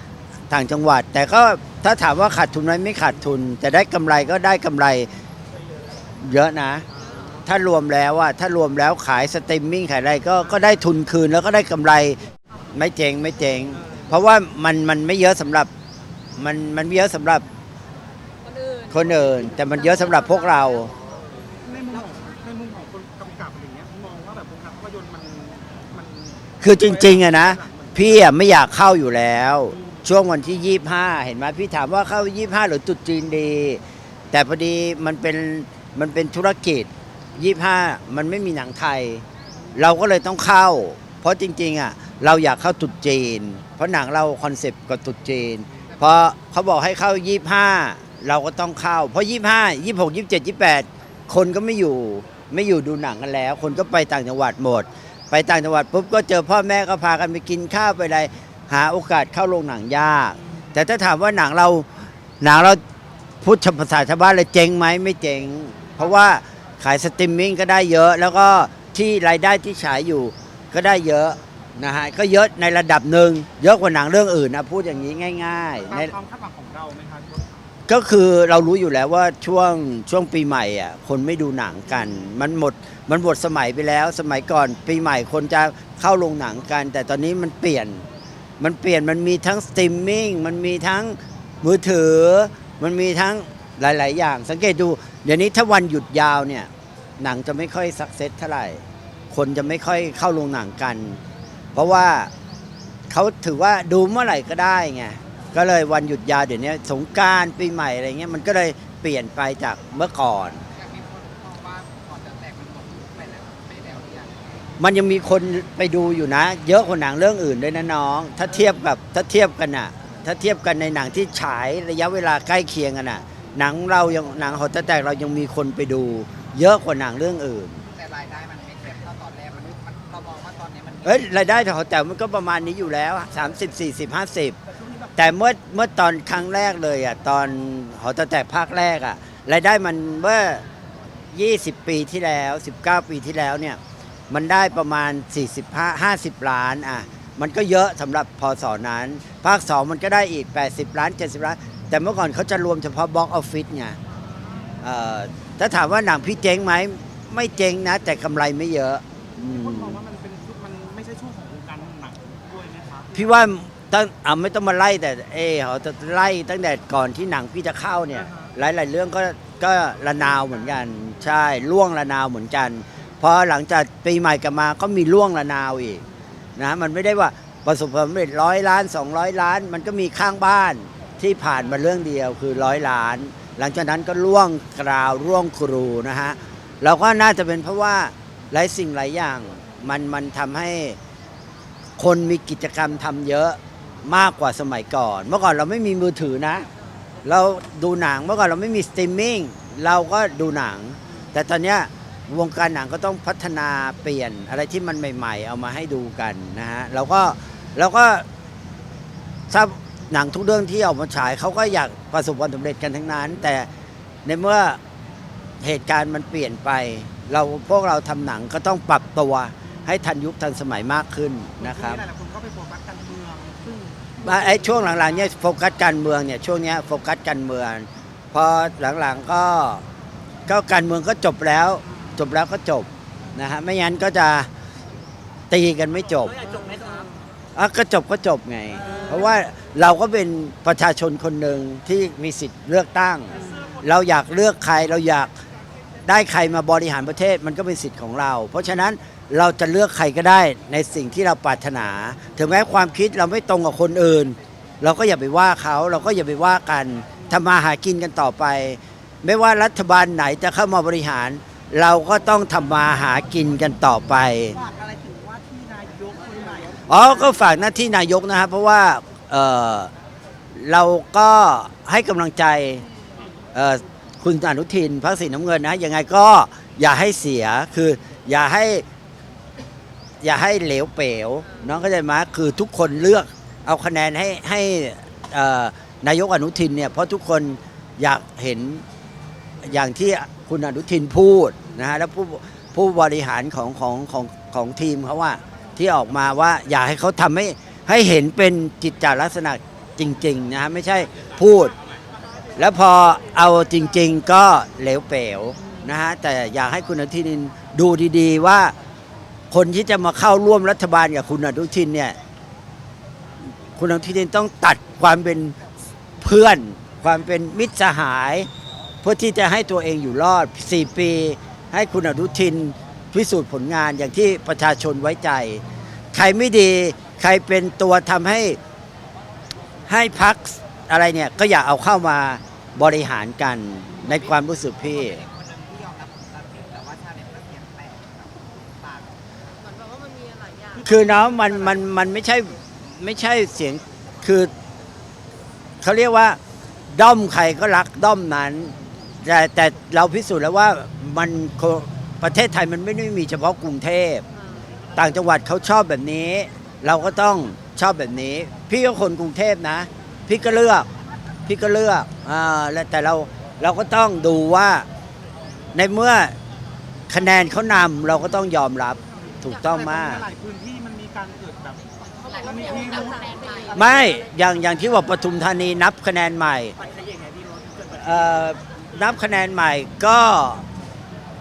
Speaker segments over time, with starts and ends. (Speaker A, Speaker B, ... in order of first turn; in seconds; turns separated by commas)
Speaker A: 0.5-5.1, Speaker A: 6.2-6.8, Speaker A: 7.4-12.2, Speaker A: 12.7-15.7, Speaker A: 16.4-17.4, Speaker B: 18.4-18.9, Speaker A: 18.9-20.9, Speaker C: 21.6-28.0, Speaker A: 26.6-33.8, Speaker A: 34.3-39.2, Speaker A: 39.7-61.9, Speaker A: 62.4-62.8, Speaker A: 63.4-76.1, Speaker C: 75.9-77.5, Speaker A: 77.9-88.0, Speaker A: 88.6-101.2, Speaker A: 101.7-102.3, Speaker A: 103.1-110.6, Speaker D: 110.8-114.7, Speaker A: 114.8-127.8, Speaker D: 127.8-131.4, Speaker A: 131.0-134.6, Speaker A: 135.2-140.6, Speaker A: 141.3-143.8, Speaker A: 144.3-154.0, Speaker A: 154.8-160.0, Speaker C: 159.4-163.2, Speaker A: 163.1-176.0, Speaker A: 176.6-191.0, Speaker A: 192.0-196.7, Speaker A: 197.2-208.2, Speaker A: 209.5-213.7, Speaker A: 214.2-214.8, Speaker A: 215.6-222.0, Speaker C: 221.7-224.2, Speaker A: 224.2-229.8, Speaker A: 230.5-234.5, Speaker A: 235.5-236.4, Speaker A: 237.5-245.3, Speaker A: 246.1-264.6, Speaker C: 264.6-266.9, Speaker A: 266.9-269.9, Speaker A: 270.5-272.8, Speaker A: 273.5-278.8, Speaker A: 280.2-288.8, Speaker A: 289.6-301.7, Speaker A: 302.6-308.7, Speaker A: 309.5-312.2, Speaker A: 313.7-315.6, Speaker A: 316.2-318.5, Speaker A: 319.0-325.6, Speaker A: 326.1-328.6, Speaker A: 329.9-335.2, Speaker D: 334.2-339.1, Speaker B: 339.6-340.8, Speaker A: 340.8-344.5, Speaker A: 345.8-346.4, Speaker A: 346.9-354.2, Speaker A: 354.9-360.9, Speaker A: 361.4-364.9, Speaker A: 365.7-366.3, Speaker A: 367.1-370.2, Speaker C: 369.7-373.6, Speaker D: 372.3-372.6, Speaker B: 373.1-373.7, Speaker D: 373.3-373.6, Speaker A: 373.7-376.7, Speaker C: 377.1-377.6, Speaker A: 377.9-380.6